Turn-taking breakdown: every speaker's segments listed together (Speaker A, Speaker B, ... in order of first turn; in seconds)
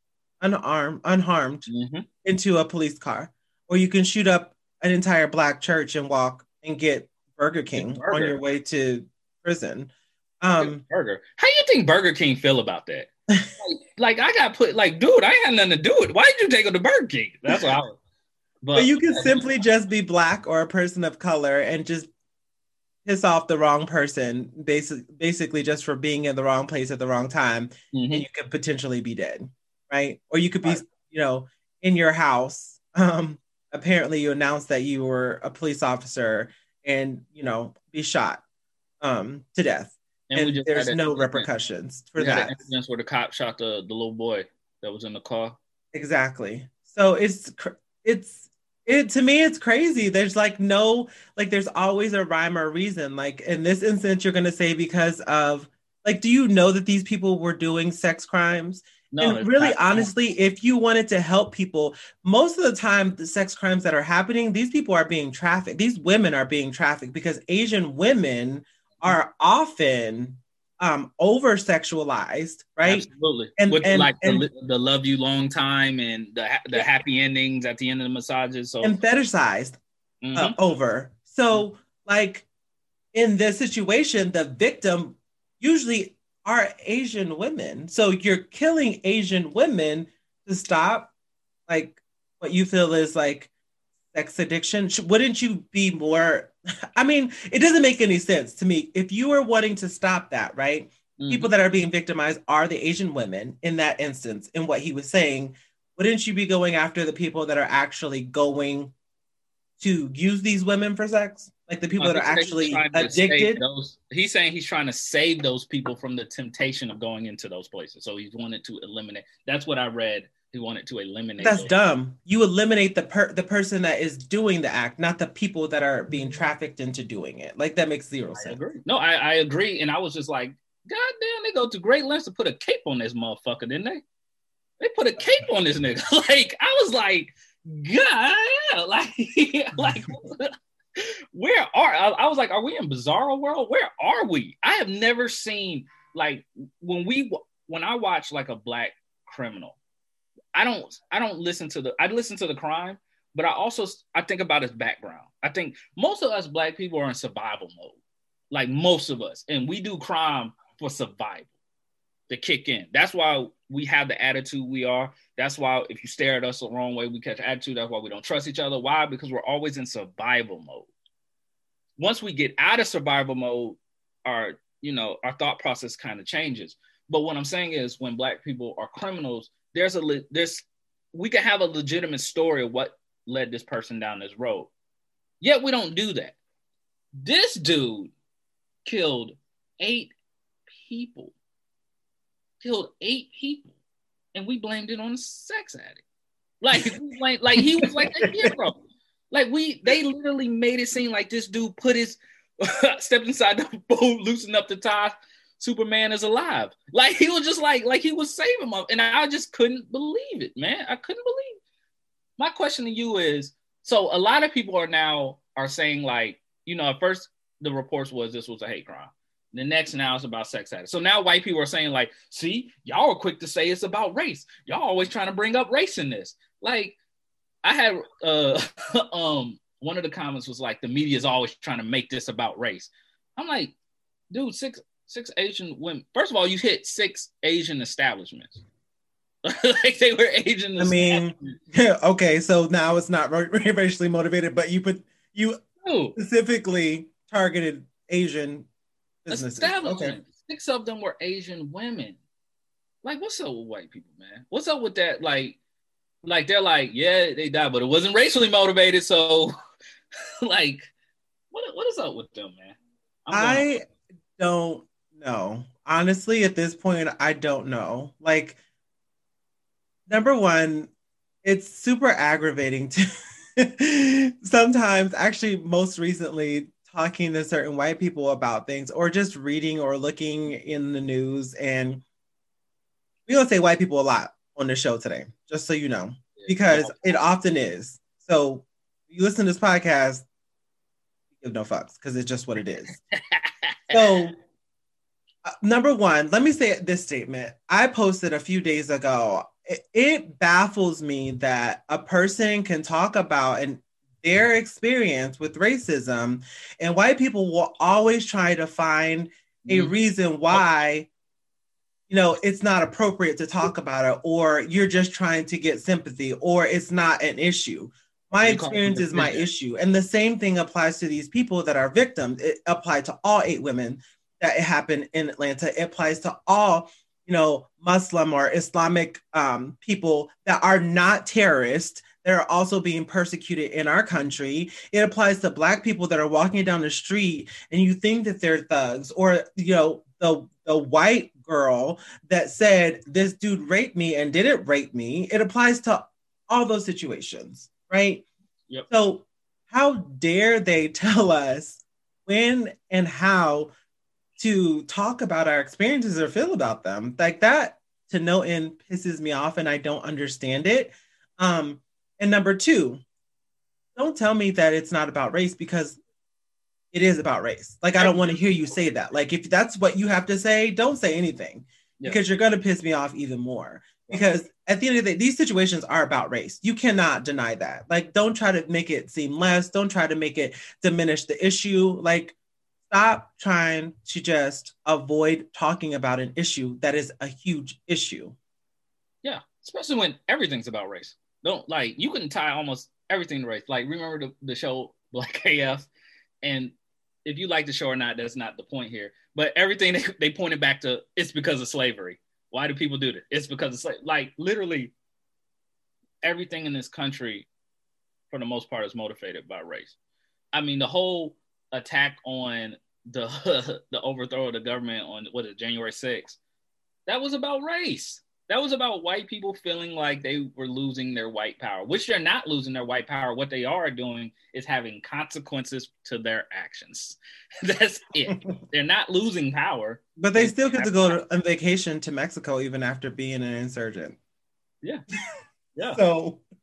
Speaker A: 0.4-1.7, 2.2-10.8, 18.7-22.1, 23.0-38.4, 39.0-42.5, 45.9-74.5, 78.8-79.8, 80.3-82.5, 83.1-91.1, 91.7-93.5, 94.1-108.9, 109.8-113.6, 121.4-128.6, 197.6-198.5, 240.8-245.6, 246.2-248.7, 249.2-250.2, 263.3-263.8, 264.4-268.6, 270.1-270.9, 271.4-273.0, 273.6-282.0, 283.3-290.2, 291.4-292.9, 293.9-294.4, 295.4-311.1, 312.1-348.2, 348.9-353.7, 354.4-363.0, 363.9-366.0, 366.9-382.4, 382.9-388.4, 430.2-434.2, 435.9-436.4
Speaker B: 1.7-2.0, 7.7-8.4, 10.6-18.0, 18.6-19.3, 27.9-28.2, 40.3-41.5, 42.2-45.6, 59.1-60.1, 72.8-79.0, 80.2-80.5, 101.2-101.5, 112.0-121.7, 128.3-134.0, 134.8-149.8, 150.5-158.0, 158.5-161.5, 162.3-170.9, 172.0-184.7, 185.4-186.4, 187.2-188.1, 188.8-190.1, 190.7-191.3, 192.6-193.7, 194.3-196.0, 196.6-198.8, 199.3-211.6, 212.4-226.9, 227.6-233.7, 234.3-238.6, 239.4-241.5, 245.8-246.2, 249.3-252.2, 253.0-255.6, 256.2-259.5, 260.4-260.9, 261.5-263.7, 286.4-287.1, 293.1-294.2, 309.6-309.9, 318.4-319.5, 368.0-368.3, 389.2-395.9, 396.4-404.9, 406.2-407.5, 408.3-410.0, 410.5-416.4, 417.1-431.2, 435.7-436.0